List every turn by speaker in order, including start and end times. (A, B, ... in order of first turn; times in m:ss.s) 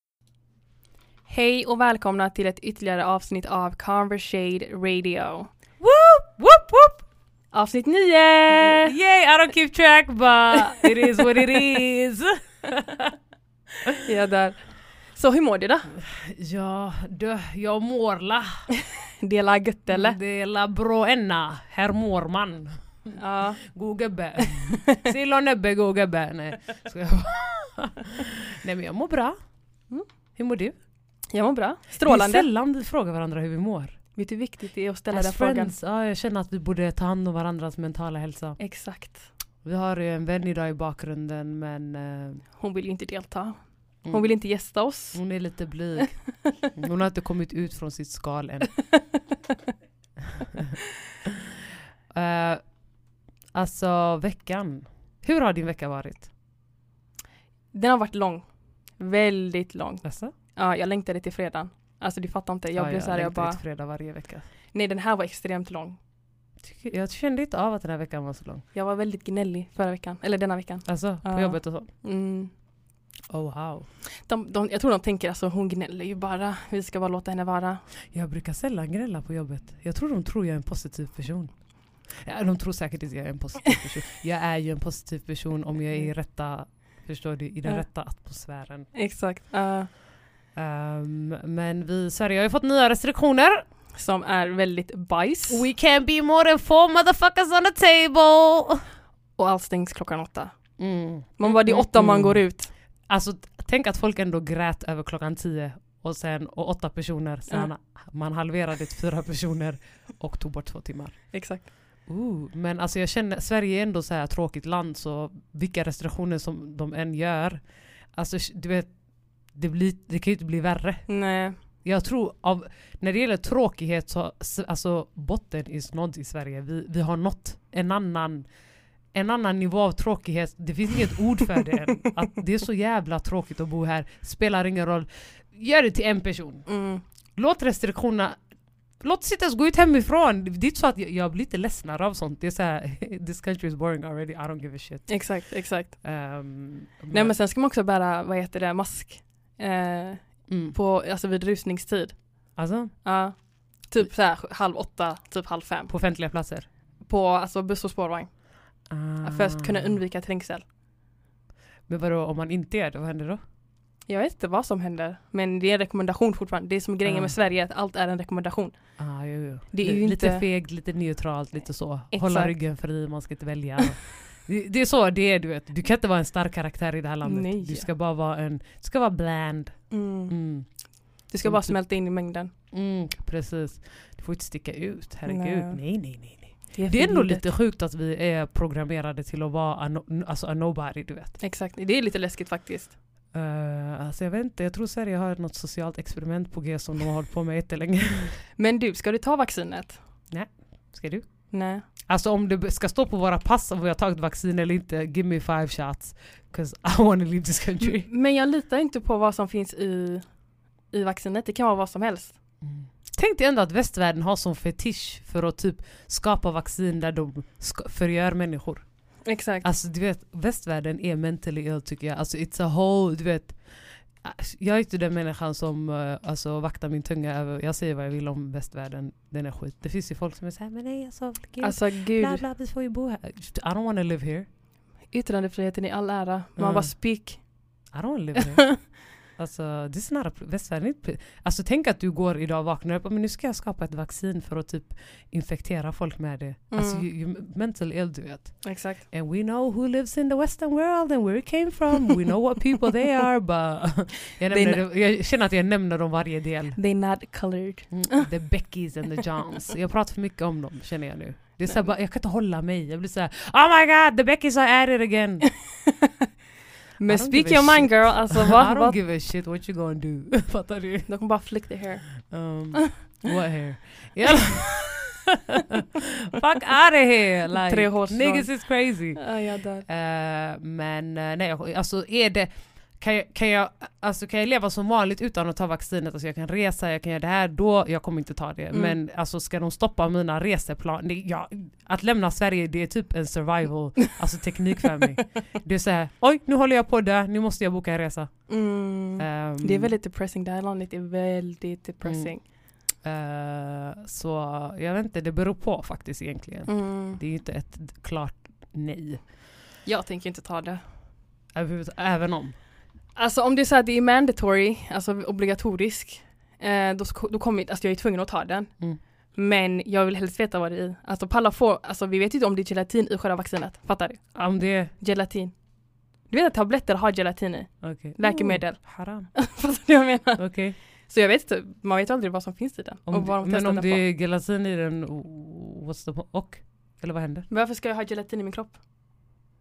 0:01.3-0:05.5 A
0:05.8-0:07.0 B
0:07.5-0:08.9 A
0:08.5-0:13.1 B
0:14.0-0:15.9 A
0:15.9-0:18.6 B
0:19.2-0:20.2 A
0:19.9-0:29.4 B
0:23.2-0:23.8 A
0:24.4-0:25.0 A
0:30.4-0:30.8 B
0:31.3-0:32.5 A
0:32.0-0:34.0 B
0:34.1-0:35.7 A
0:35.1-0:38.6 B
0:38.6-0:39.3 A
0:39.6-0:42.4 B
0:42.6-0:45.2 A
0:44.0-0:44.3 B
0:45.1-0:48.8 B
0:52.1-0:52.6 B
0:53.5-0:56.3 B
0:57.7-0:58.5 A
0:59.0-1:03.6 A
1:00.0-1:00.3 B
1:02.7-1:04.4 B
1:04.7-1:06.0 A
1:06.6-1:08.6 B
1:08.7-1:12.5 A
1:10.8-1:11.9 B
1:13.3-1:13.9 B
1:14.2-1:17.8 A
1:18.1-1:28.9 B
1:28.9-1:29.9 A
1:30.5-1:33.6 B
1:33.9-1:35.6 A
1:35.5-1:38.8 B
1:39.4-1:40.5 A
1:40.8-1:42.4 B
1:41.4-1:42.7 A
1:43.1-2:08.5 B
1:51.3-1:51.6 A
2:01.1-2:01.6 A
2:09.1-2:16.7 B
2:16.6-2:17.0 A
2:17.4-2:18.4 B
2:19.0-2:27.4 B
2:25.1-2:26.0 A
2:27.1-2:35.9 A
2:30.5-2:30.8 B
2:32.5-2:33.0 B
2:35.9-2:36.7 B
2:37.0-2:38.4 A
2:38.9-2:40.0 B
2:39.2-2:40.6 A
2:41.9-2:43.4 B
2:44.1-2:49.0 A
2:47.0-2:47.3 B
2:49.0-3:00.7 B
2:49.7-2:50.4 A
2:52.1-2:52.6 A
2:57.2-2:57.9 A
2:59.9-3:00.4 A
3:01.2-3:02.5 A
3:01.2-3:01.7 B
3:02.7-3:11.4 B
3:05.2-3:07.5 A
3:11.4-3:13.0 A
3:13.3-3:18.4 B
3:18.6-3:20.0 A
3:20.3-3:28.1 B
3:21.5-3:21.8 A
3:27.8-3:30.3 A
3:30.9-3:32.4 A
3:32.6-3:54.5 B
3:39.2-3:39.7 A
3:51.6-3:52.4 A
3:55.1-3:57.7 A
3:56.6-3:57.0 B
3:57.9-4:16.8 B
3:58.4-3:58.8 A
4:06.7-4:07.0 A
4:08.6-4:09.0 A
4:14.5-4:14.8 A
4:16.8-4:18.3 A
4:17.9-4:25.5 B
4:25.5-4:26.1 A
4:27.0-4:29.0 A
4:27.1-4:31.1 B
4:31.1-4:32.9 A
4:32.3-4:39.3 B
4:37.6-4:38.5 A
4:39.1-4:39.8 A
4:39.8-4:58.6 B
4:58.5-5:02.4 A
4:59.2-4:59.9 B
5:02.0-5:09.3 B
5:06.6-5:07.2 A
5:09.8-5:10.8 A
5:11.5-5:12.5 B
5:13.2-5:18.7 A
5:19.3-5:24.4 A
5:24.3-5:24.9 B
5:24.9-5:25.6 A
5:26.3-5:34.0 A
5:27.8-5:29.4 B
5:30.4-5:30.8 B
5:33.1-5:37.5 B
5:37.5-5:38.8 A